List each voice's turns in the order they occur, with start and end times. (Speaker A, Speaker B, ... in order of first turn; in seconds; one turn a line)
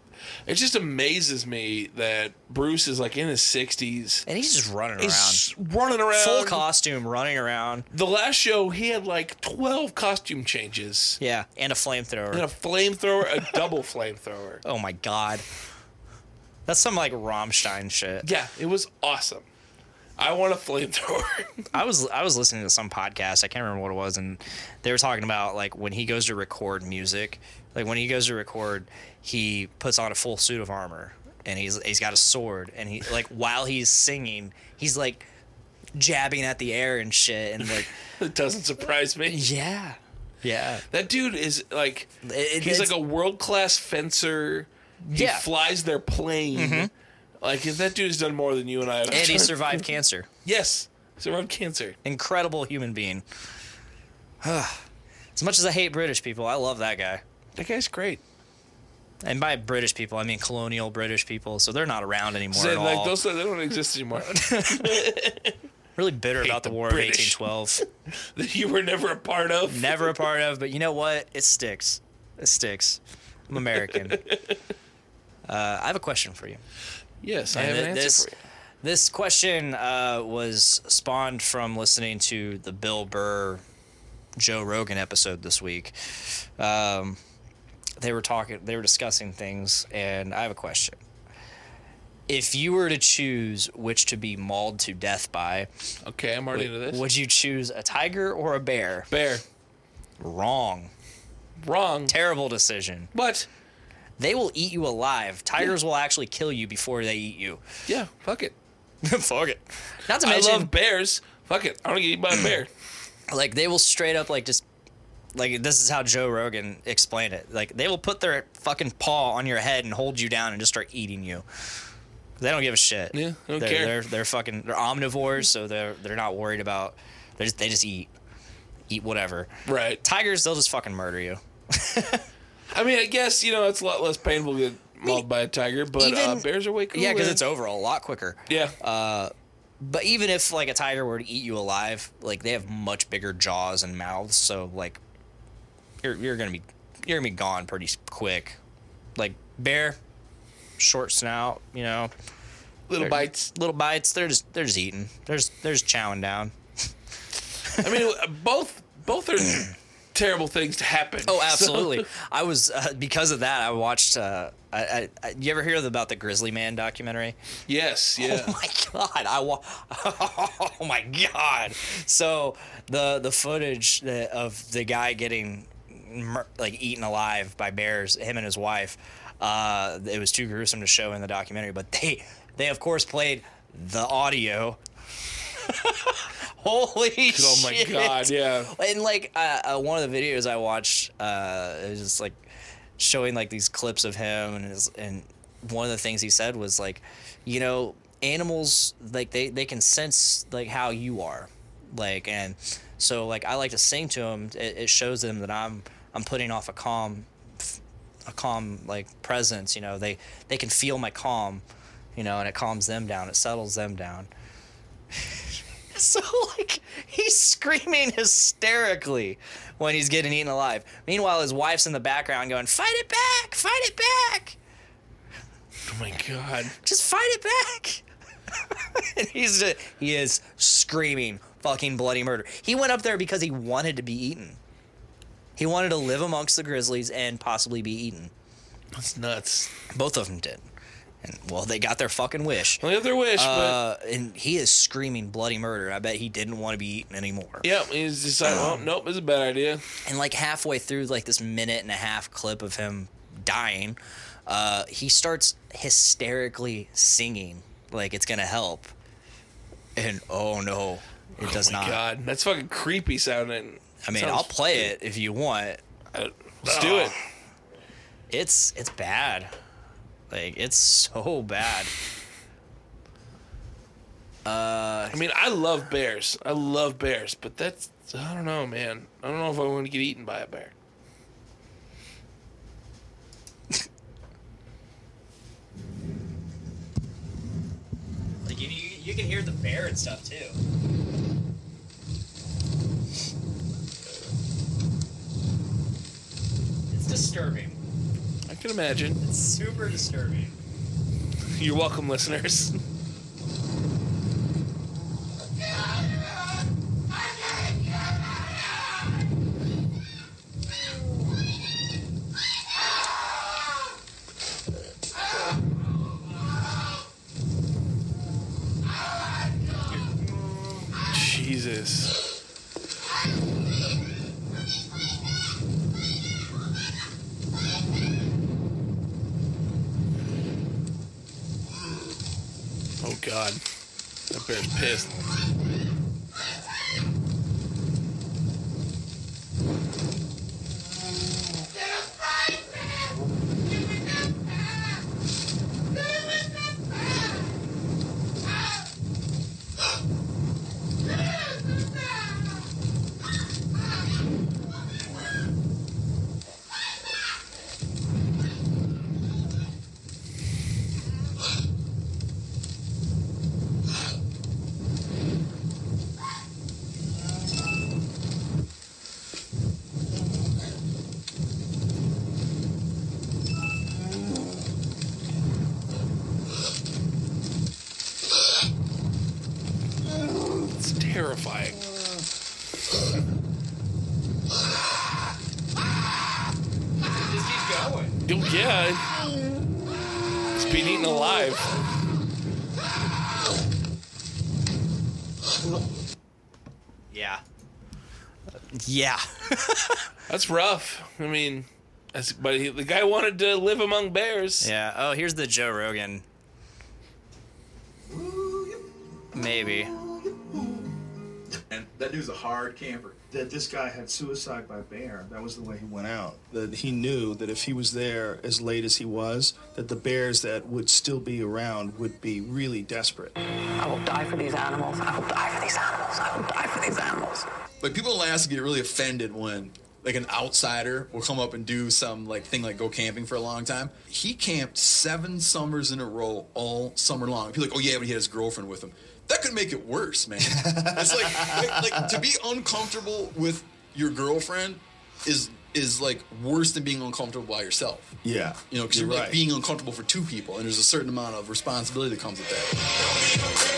Speaker A: 0.5-4.2
Speaker B: 4.2-5.5
Speaker A: 5.0-6.7
Speaker B: 6.1-7.9
Speaker A: 7.9-11.2
Speaker B: 11.2-12.5
Speaker A: 12.3-14.6
Speaker B: 14.6-15.4
Speaker B: 16.6-18.2
Speaker A: 18.2-19.4
Speaker A: 20.2-21.6
Speaker B: 21.7-35.2
Speaker B: 36.0-37.9
Speaker A: 38.2-39.5
Speaker B: 39.3-40.8
Speaker A: 40.9-46.9
Speaker B: 42.2-42.9
Speaker B: 45.1-45.5
Speaker B: 46.5-46.9
Speaker A: 47.4-49.8
Speaker B: 49.1-50.3
Speaker A: 50.4-52.0
Speaker B: 52.0-53.2
Speaker B: 54.4-54.8
Speaker B: 55.4-57.2
Speaker A: 57.6-58.2
Speaker B: 59.2-63.2
Speaker A: 62.5-65.5
Speaker B: 64.3-65.0
Speaker B: 66.0-67.8
Speaker A: 66.4-67.4
Speaker A: 68.2-70.1
Speaker B: 69.7-74.2
Speaker A: 74.2-74.5
Speaker B: 75.5-76.6
Speaker A: 77.2-78.3
Speaker B: 77.5-78.3
Speaker B: 78.8-83.6
Speaker B: 84.4-87.2
Speaker B: 88.0-91.0
Speaker B: 92.3-95.7
Speaker A: 96.0-97.0
Speaker B: 96.5-99.1
Speaker A: 99.1-99.4
Speaker B: 100.2-100.9
Speaker A: 101.6-102.1
Speaker B: 102.1-103.1
Speaker A: 103.1-103.5
Speaker B: 104.2-107.6
Speaker A: 107.9-108.5
Speaker B: 109.0-110.7
Speaker A: 110.2-112.7
Speaker B: 113.3-114.6
Speaker B: 115.3-121.4
Speaker B: 122.4-128.1
Speaker A: 123.1-124.0
Speaker B: 128.9-132.2
Speaker A: 129.7-130.0
Speaker A: 132.7-137.4
Speaker B: 136.0-145.0
Speaker A: 138.5-138.7
Speaker B: 146.0-148.6
Speaker B: 149.2-150.0
Speaker B: 150.8-152.1
Speaker A: 152.9-153.5
Speaker B: 153.0-156.5
Speaker A: 157.8-162.1
Speaker B: 161.2-167.4
Speaker A: 167.7-168.6
Speaker B: 168.2-184.8
Speaker B: 185.5-192.4
Speaker A: 187.3-188.7
Speaker B: 193.0-211.6
Speaker B: 212.2-214.3
Speaker B: 215.2-224.6
Speaker A: 225.9-226.7
Speaker B: 226.8-234.6
Speaker B: 235.6-238.3
Speaker A: 238.9-239.7
Speaker B: 239.9-240.6
Speaker B: 241.2-247.7
Speaker A: 242.8-243.8
Speaker A: 247.6-249.8
Speaker B: 248.4-248.9
Speaker B: 250.0-258.9
Speaker B: 259.9-262.0
Speaker A: 261.4-264.9
Speaker B: 264.0-265.8
Speaker A: 266.1-267.1
Speaker B: 266.6-267.1
Speaker B: 268.3-269.5
Speaker B: 270.3-271.9
Speaker B: 274.4-275.2
Speaker A: 275.1-280.7
Speaker B: 288.4-290.6
Speaker B: 296.9-297.8
Speaker A: 298.5-299.2
Speaker B: 299.2-300.5
Speaker A: 301.5-302.8
Speaker A: 321.1-322.1
Speaker A: 333.0-333.6
Speaker A: 334.3-335.1
Speaker A: 380.8-381.8
Speaker B: 387.2-388.1
Speaker A: 388.2-389.1
Speaker A: 390.5-391.7
Speaker B: 397.1-397.4
Speaker B: 398.7-400.1
Speaker A: 400.3-404.7
Speaker B: 404.6-406.2
Speaker C: 408.1-408.8
Speaker B: 409.3-409.9
Speaker C: 409.4-410.9
Speaker D: 411.7-413.2
Speaker C: 413.3-423.4
Speaker E: 423.8-427.5
Speaker D: 427.8-448.1
Speaker C: 440.4-442.2
Speaker C: 448.2-449.4
Speaker D: 448.7-452.9